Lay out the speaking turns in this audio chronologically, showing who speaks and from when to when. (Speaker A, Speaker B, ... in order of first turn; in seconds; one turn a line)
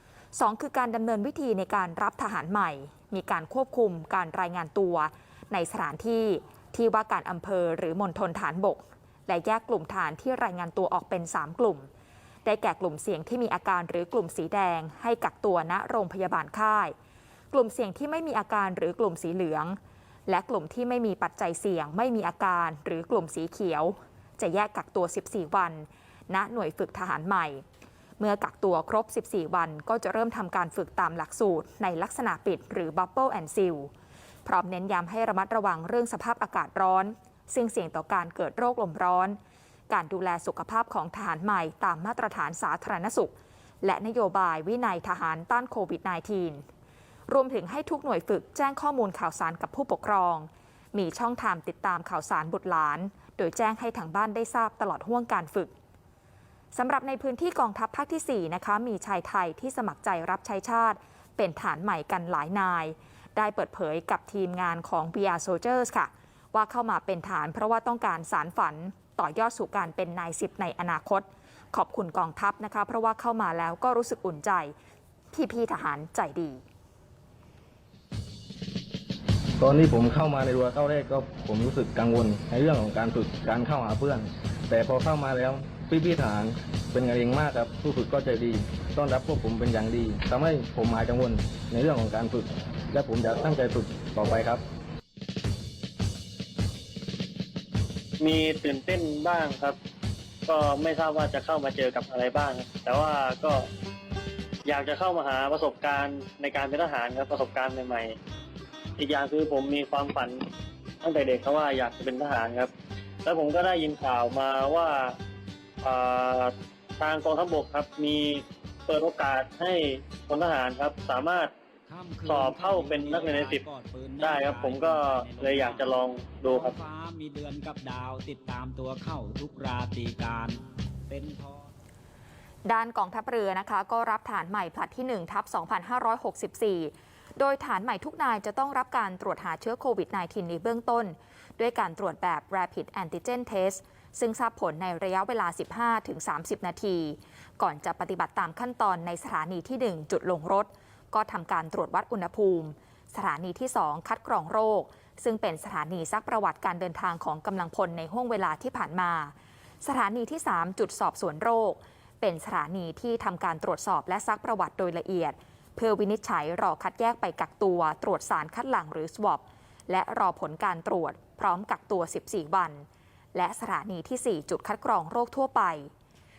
Speaker A: 0.3-11.9
Speaker A: 12.4-16.9
Speaker A: 17.5-27.6
Speaker A: 28.2-33.9
Speaker A: 34.5-39.4
Speaker A: 39.9-46.6
Speaker A: 47.3-55.7
Speaker A: 56.7-74.7
Speaker A: 75.3-76.6
Speaker B: 79.6-94.6
Speaker C: 98.2-99.8
Speaker C: 100.5-103.7
Speaker C: 104.7-108.2
Speaker C: 109.0-110.4
Speaker C: 111.0-112.7
Speaker C: 113.2-115.1
Speaker C: 115.8-121.5
Speaker D: 121.9-125.9
Speaker C: 122.3-123.6
Speaker C: 124.2-126.8
Speaker D: 126.5-131.7
Speaker A: 132.7-175.9